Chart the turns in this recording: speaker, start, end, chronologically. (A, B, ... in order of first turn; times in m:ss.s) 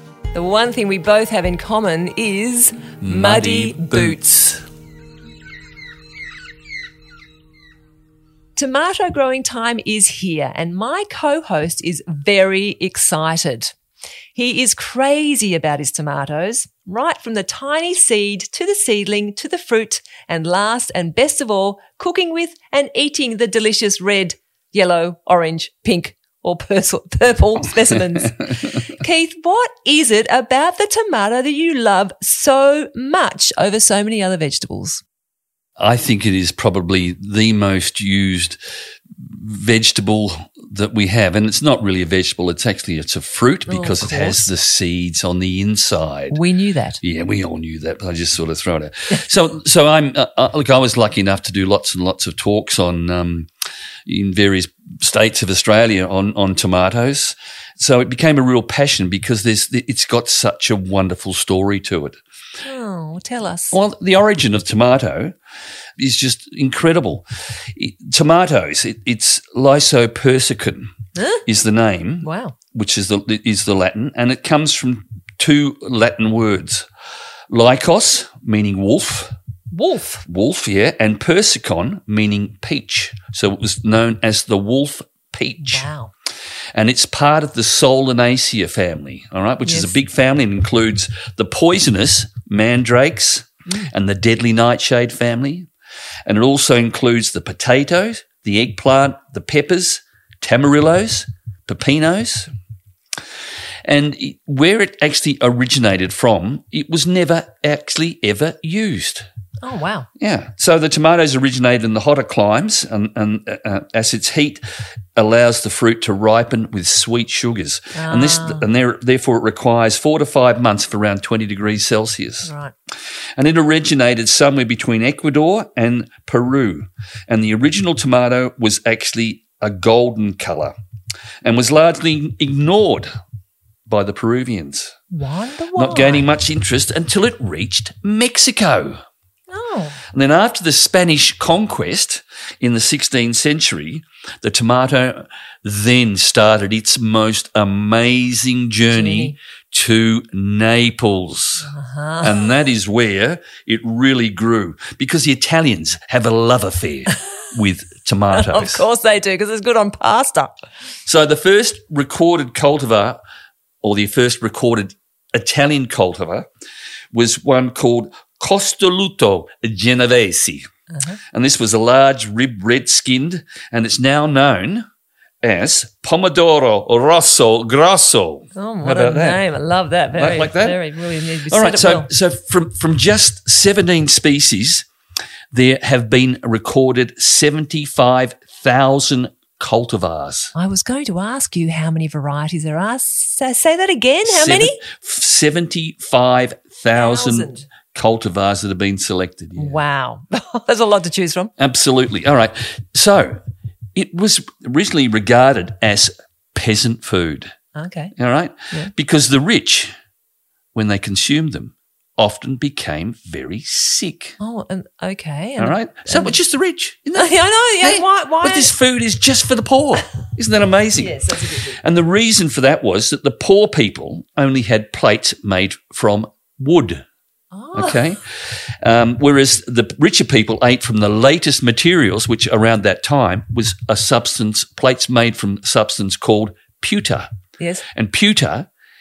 0:00.3-0:04.2 A
0:03.0-0:04.6 B
0:08.6-0:13.7 A
0:14.3-0:35.0 A
0:35.8-0:38.6 B
0:39.2-0:46.4 B
0:43.7-0:44.5 A
0:46.3-0:47.0 A
0:47.0-0:53.5 B
0:54.1-1:02.2 B
1:02.6-1:03.8 A
1:03.7-1:05.4 B
1:06.0-1:10.9 B
1:11.2-1:11.4 A
1:11.5-1:16.9 B
1:12.2-1:12.6 A
1:17.5-1:19.3 B
1:19.7-1:20.2 A
1:20.3-1:25.9 B
1:25.6-1:26.1 A
1:26.8-1:35.7 B
1:29.6-1:30.0 A
1:36.3-1:42.5 B
1:43.8-1:49.3 B
1:49.6-1:50.1 A
1:50.2-1:54.6 B
1:55.2-2:02.5 B
1:57.9-1:58.7 A
2:02.4-2:02.7 A
2:03.4-2:10.7 B
2:11.4-2:13.1 B
2:13.9-2:15.0 B
2:15.1-2:16.3 A
2:15.8-2:19.0 B
2:19.5-2:20.0 A
2:20.1-2:31.7 B
2:28.9-2:29.4 A
2:31.6-2:32.4 A
2:32.2-2:38.8 B
2:38.3-2:40.5 A
2:41.1-2:43.2 B
2:43.8-2:46.5 B
2:47.1-2:50.6 B
2:50.9-2:51.2 A
2:51.3-2:54.8 B
2:55.4-2:59.4 B
2:58.6-3:02.1 A
3:00.2-3:00.8 B
3:01.5-3:04.9 B
3:05.5-3:10.5 B
3:10.5-3:14.8 A
3:14.3-3:19.8 B
3:16.9-3:17.7 A
3:19.6-3:21.5 A
3:21.6-3:23.4 B
3:24.0-3:27.5 B
3:27.8-3:28.1 A
3:28.2-3:29.9 B
3:30.7-3:34.4 B
3:34.4-3:36.4 A
3:35.6-3:47.0 B
3:37.1-3:38.7 A
3:41.0-3:41.8 A
3:47.5-3:48.0 A
3:47.7-3:57.3 B
3:57.6-3:57.8 A
3:57.9-3:58.7 B